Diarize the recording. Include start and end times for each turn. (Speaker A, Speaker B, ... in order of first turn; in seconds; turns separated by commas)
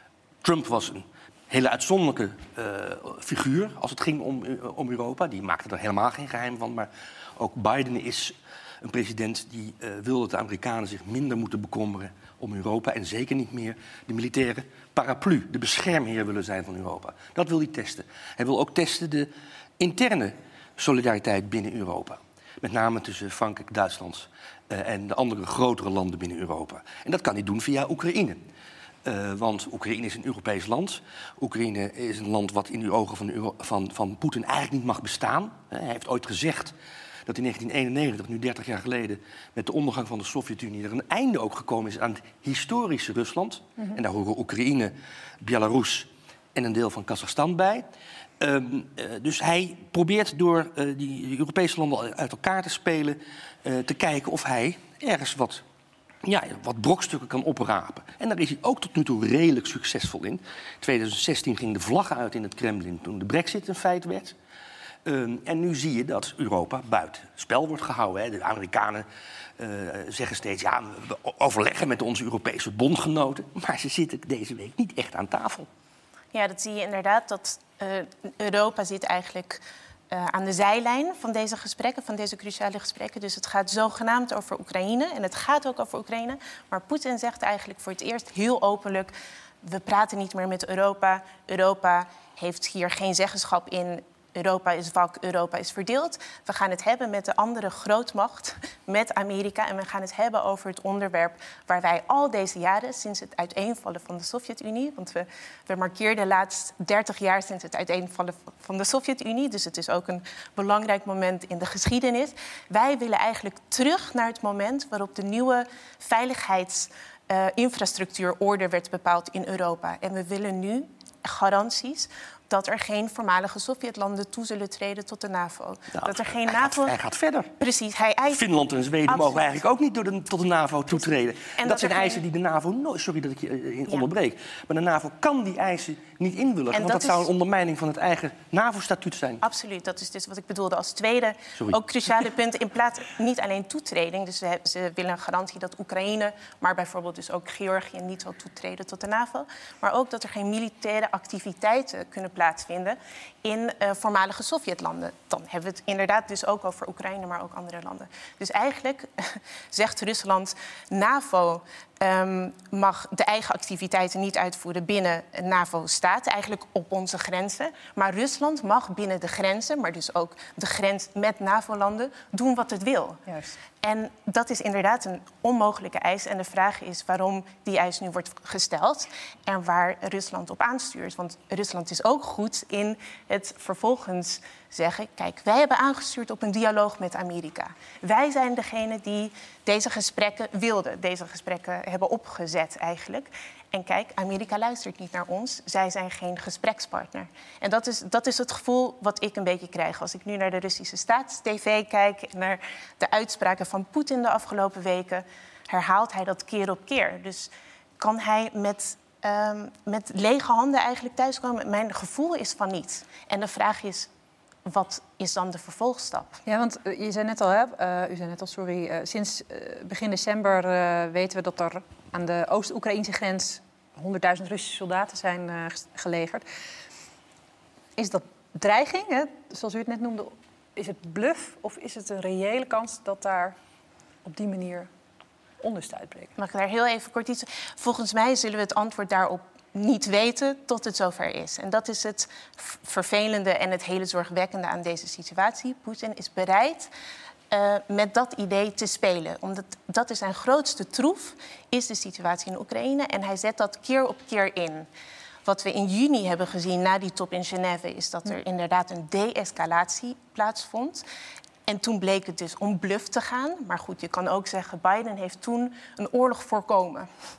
Speaker A: 0.4-28.4, Speaker A: 29.0-36.7, Speaker A: 37.2-47.9, Speaker A: 48.4-55.6, Speaker A: 56.2-64.3, Speaker A: 65.0-69.0, Speaker A: 69.6-75.7, Speaker B: 76.3-79.6, Speaker B: 80.1-89.1, Speaker B: 89.6-127.0, Speaker A: 125.9-127.5, Speaker B: 127.6-128.4, Speaker A: 128.3-139.4, Speaker B: 129.1-129.6, Speaker B: 131.5-132.2, Speaker B: 136.7-137.3, Speaker B: 139.4-173.2, Speaker C: 173.3-173.6, Speaker B: 173.8-214.1, Speaker B: 214.7-216.4, Speaker C: 216.4-226.4, Speaker C: 228.0-233.6, Speaker C: 234.2-234.9, Speaker C: 235.6-236.3, Speaker B: 236.4-246.9, Speaker B: 247.5-254.9, Speaker B: 255.4-261.0, Speaker B: 261.7-267.1